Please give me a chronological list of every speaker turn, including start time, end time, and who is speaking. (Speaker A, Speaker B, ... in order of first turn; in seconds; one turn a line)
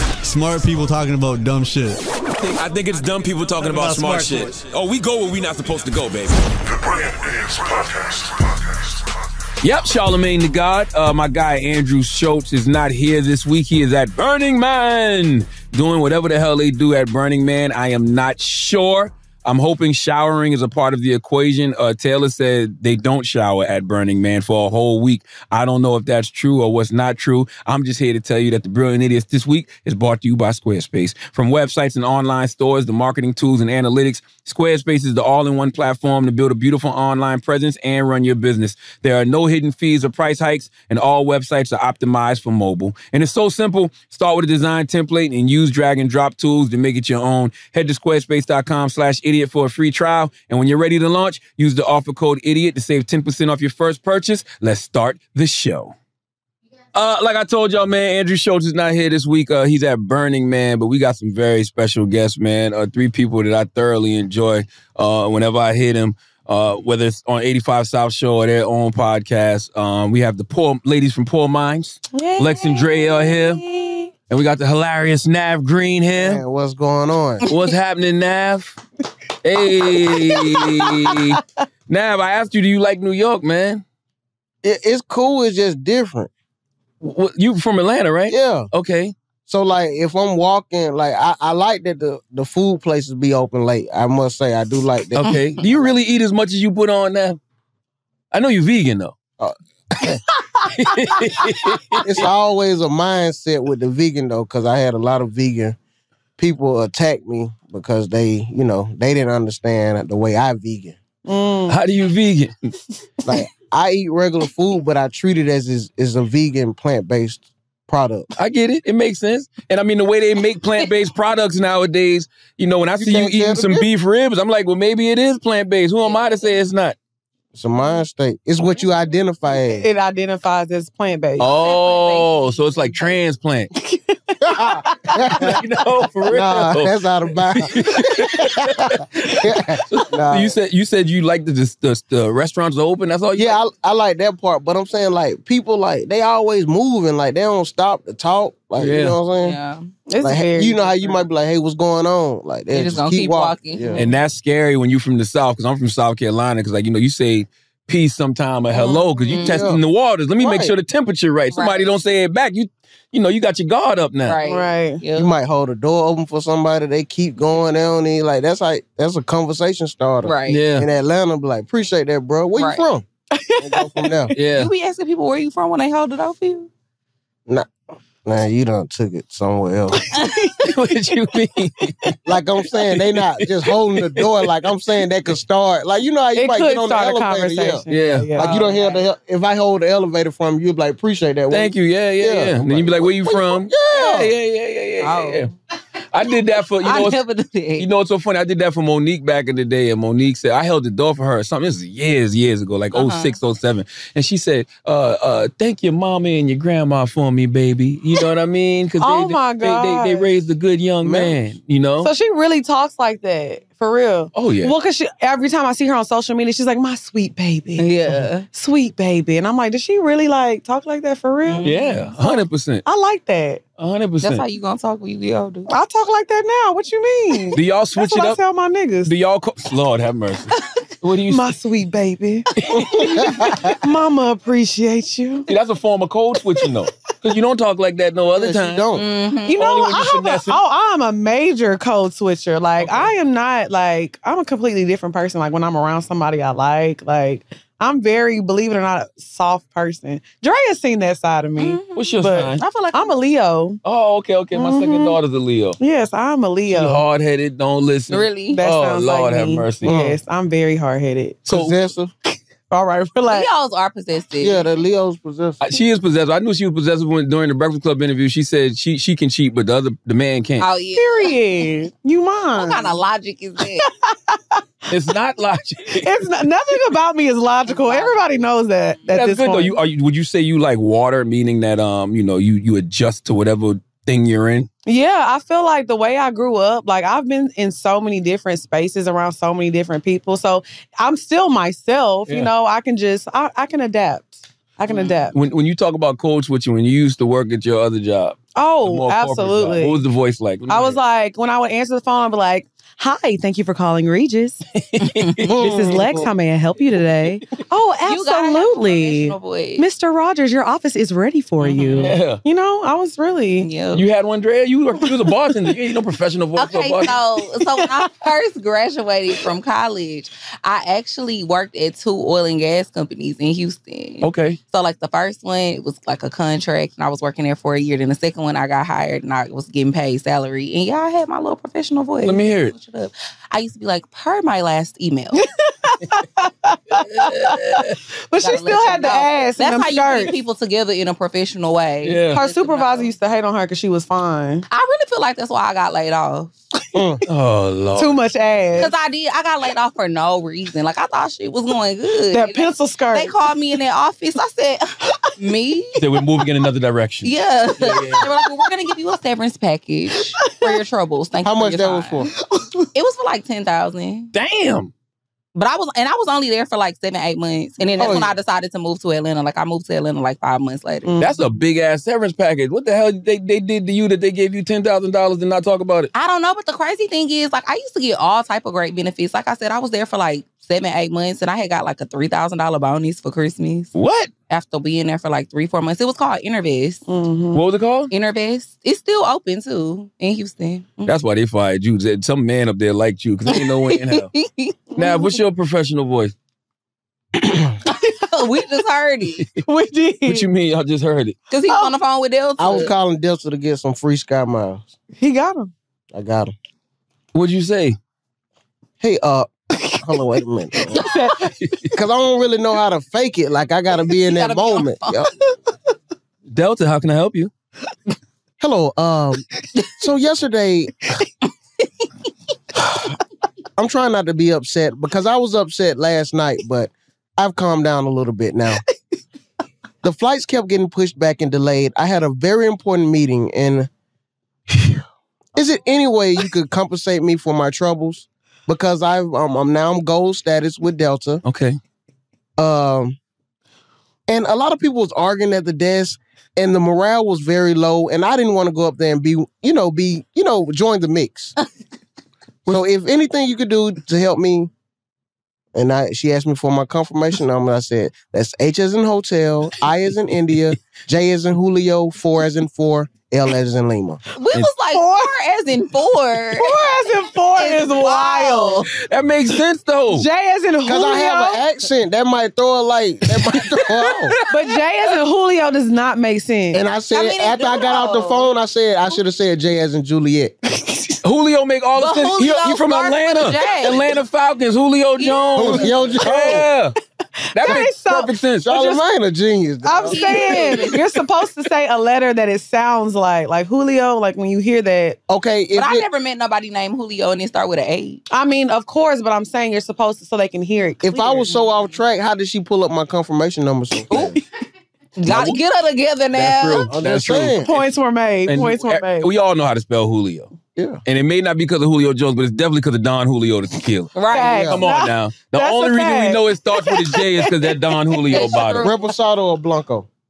Speaker A: 0.2-2.0
Speaker B: 2.4-8.4
Speaker A: 3.6-4.6
Speaker B: 9.6-56.0
Speaker B: 56.9-73.6
Speaker C: 72.1-74.1
Speaker B: 74.3-76.4
Speaker D: 76.2-77.4
Speaker E: 77.4-77.7
Speaker B: 77.5-78.8
Speaker B: 79.4-83.8
Speaker C: 79.8-81.2
Speaker D: 84.6-86.3
Speaker B: 87.0-89.2
Speaker D: 88.3-88.7
Speaker D: 89.5-95.9
Speaker B: 95.2-97.4
Speaker B: 98.3-99.1
Speaker C: 100.4-100.7
Speaker B: 100.7-102.3
Speaker D: 102.0-105.8
Speaker D: 106.4-111.0
Speaker C: 111.3-111.8
Speaker B: 111.7-112.5
Speaker D: 113.3-118.3
Speaker B: 118.4-127.0
Speaker D: 123.0-123.8
Speaker E: 126.0-126.6
Speaker D: 127.5-129.9
Speaker C: 129.5-131.5
Speaker B: 131.4-133.7
Speaker E: 131.5-133.2
Speaker C: 133.8-135.5
Speaker D: 134.5-135.6
Speaker B: 135.4-137.0
Speaker D: 136.3-137.7
Speaker B: 137.6-143.6
Speaker D: 138.4-138.8
Speaker D: 139.4-140.6
Speaker D: 143.3-149.6
Speaker B: 148.8-149.2
Speaker E: 149.4-149.9
Speaker C: 150.1-151.2
Speaker D: 150.2-154.1
Speaker E: 152.7-154.1
Speaker B: 154.0-164.4
Speaker C: 158.7-159.4
Speaker E: 159.3-159.6
Speaker D: 159.5-159.8
Speaker D: 160.4-160.7
Speaker E: 161.5-161.9
Speaker E: 164.2-165.3
Speaker C: 164.4-165.0
Speaker D: 165.2-173.1
Speaker E: 170.2-170.6
Speaker B: 170.5-170.9
Speaker E: 172.6-172.9
Speaker C: 173.4-174.4
Speaker D: 173.6-174.3
Speaker B: 174.3-174.7
Speaker E: 174.5-176.7
Speaker D: 177.5-180.0
Speaker C: 180.1-181.1
Speaker B: 180.6-182.1
Speaker D: 182.2-187.8
Speaker B: 182.9-183.6
Speaker B: 184.2-184.5
Speaker C: 186.4-188.5
Speaker B: 187.9-188.3
Speaker D: 188.3-194.3
Speaker E: 188.4-189.0
Speaker B: 191.5-195.5
Speaker E: 195.0-195.5
Speaker B: 196.1-197.2
Speaker E: 196.8-197.9
Speaker B: 197.8-212.1
Speaker E: 202.9-203.3
Speaker C: 209.0-210.3
Speaker D: 211.0-211.4
Speaker C: 212.0-217.9
Speaker B: 214.3-214.7
Speaker E: 217.8-218.5
Speaker C: 218.5-221.7
Speaker E: 221.4-222.2
Speaker B: 221.6-222.8
Speaker C: 222.2-223.6
Speaker B: 223.8-224.4
Speaker E: 224.2-225.7
Speaker C: 225.7-229.1
Speaker B: 227.6-228.4
Speaker B: 229.1-231.5
Speaker C: 231.3-232.5
Speaker B: 232.6-233.6
Speaker D: 232.8-233.6
Speaker C: 233.3-235.5
Speaker B: 235.5-238.9
Speaker D: 238.3-239.0
Speaker E: 238.9-239.6
Speaker C: 239.5-253.8
Speaker B: 239.6-240.6
Speaker B: 242.8-243.1
Speaker E: 251.6-253.2
Speaker B: 252.0-252.6
Speaker B: 253.8-255.8
Speaker C: 254.5-255.2
Speaker C: 255.8-257.0
Speaker B: 256.7-259.9
Speaker E: 258.1-258.6
Speaker C: 258.5-261.4
Speaker D: 259.8-260.2
Speaker B: 261.5-261.8
Speaker D: 261.5-262.1
Speaker C: 262.7-263.5
Speaker E: 263.3-264.7
Speaker D: 264.4-265.6
Speaker B: 265.6-270.7
Speaker E: 270.6-271.4
Speaker C: 271.0-272.9
Speaker E: 272.6-273.8
Speaker C: 273.8-274.6
Speaker B: 274.9-276.2
Speaker C: 276.0-279.8
Speaker E: 277.7-278.2
Speaker B: 279.1-284.7
Speaker C: 284.9-295.4
Speaker E: 294.9-295.2
Speaker B: 295.3-301.0
Speaker C: 298.6-300.0
Speaker C: 300.7-304.6
Speaker B: 304.8-306.3
Speaker E: 305.0-305.5
Speaker D: 305.4-306.2
Speaker C: 305.6-313.7
Speaker E: 308.1-309.9
Speaker E: 311.6-312.1
Speaker B: 312.0-312.4
Speaker E: 313.6-314.0
Speaker B: 313.9-317.2
Speaker E: 316.6-335.4
Speaker C: 317.8-318.1
Speaker B: 324.2-324.6
Speaker B: 332.2-332.7
Speaker C: 335.4-340.4
Speaker B: 337.0-338.0
Speaker E: 338.4-343.1
Speaker B: 342.0-342.4
Speaker C: 342.3-344.7
Speaker E: 344.7-346.5
Speaker D: 346.9-347.2
Speaker B: 347.3-348.2
Speaker C: 348.0-348.9
Speaker E: 348.8-356.0
Speaker C: 352.3-353.4
Speaker B: 356.0-358.3
Speaker E: 357.2-362.2
Speaker D: 361.4-362.3
Speaker E: 362.9-364.3
Speaker B: 364.3-364.9
Speaker E: 365.6-371.1
Speaker D: 368.0-368.4
Speaker C: 371.0-371.4
Speaker B: 371.2-376.1
Speaker E: 376.1-383.9
Speaker B: 383.9-384.3
Speaker E: 384.5-387.0
Speaker C: 387.1-387.6
Speaker B: 387.5-388.1
Speaker E: 388.1-391.1
Speaker B: 391.1-394.3
Speaker E: 393.5-395.0
Speaker B: 395.0-396.3
Speaker E: 397.9-399.4
Speaker C: 399.6-400.5
Speaker B: 400.3-401.4
Speaker E: 401.5-402.9
Speaker D: 402.6-404.9
Speaker C: 405.2-405.7
Speaker D: 406.1-406.5
Speaker B: 407.3-408.0
Speaker D: 409.0-411.0
Speaker C: 410.9-411.5
Speaker D: 411.9-415.3
Speaker E: 414.2-415.2
Speaker B: 416.5-417.5
Speaker D: 418.6-420.9
Speaker D: 423.8-428.8
Speaker D: 430.0-433.9
Speaker D: 435.6-441.4
Speaker B: 441.4-441.8
Speaker D: 442.6-443.2
Speaker D: 444.3-451.6
Speaker D: 452.7-454.7
Speaker D: 455.7-464.2
Speaker E: 464.4-466.8
Speaker C: 464.9-465.3
Speaker C: 466.6-468.9
Speaker E: 467.6-468.9
Speaker B: 468.9-470.3
Speaker C: 470.1-471.6
Speaker D: 470.9-474.3
Speaker B: 473.4-474.4
Speaker C: 474.5-476.8
Speaker D: 476.7-480.6
Speaker E: 477.1-478.5
Speaker C: 480.8-481.2
Speaker B: 481.2-486.9
Speaker E: 481.9-484.1
Speaker E: 485.2-486.6
Speaker D: 485.6-486.6
Speaker B: 487.5-488.7
Speaker C: 487.5-489.0
Speaker D: 488.6-490.9
Speaker C: 489.8-495.2
Speaker E: 490.1-491.0
Speaker D: 495.3-496.1
Speaker E: 495.7-498.2
Speaker C: 498.3-501.5
Speaker D: 501.0-504.4
Speaker E: 501.5-502.0
Speaker E: 504.1-504.4
Speaker E: 505.2-506.9
Speaker B: 505.3-505.6
Speaker B: 506.4-507.8
Speaker D: 506.9-507.7
Speaker C: 507.6-509.3
Speaker B: 508.5-510.5
Speaker D: 510.8-511.0
Speaker B: 511.1-514.2
Speaker E: 514.1-514.7
Speaker C: 514.3-518.4
Speaker D: 514.4-514.8
Speaker B: 514.7-518.9
Speaker E: 518.3-519.1
Speaker D: 518.8-520.1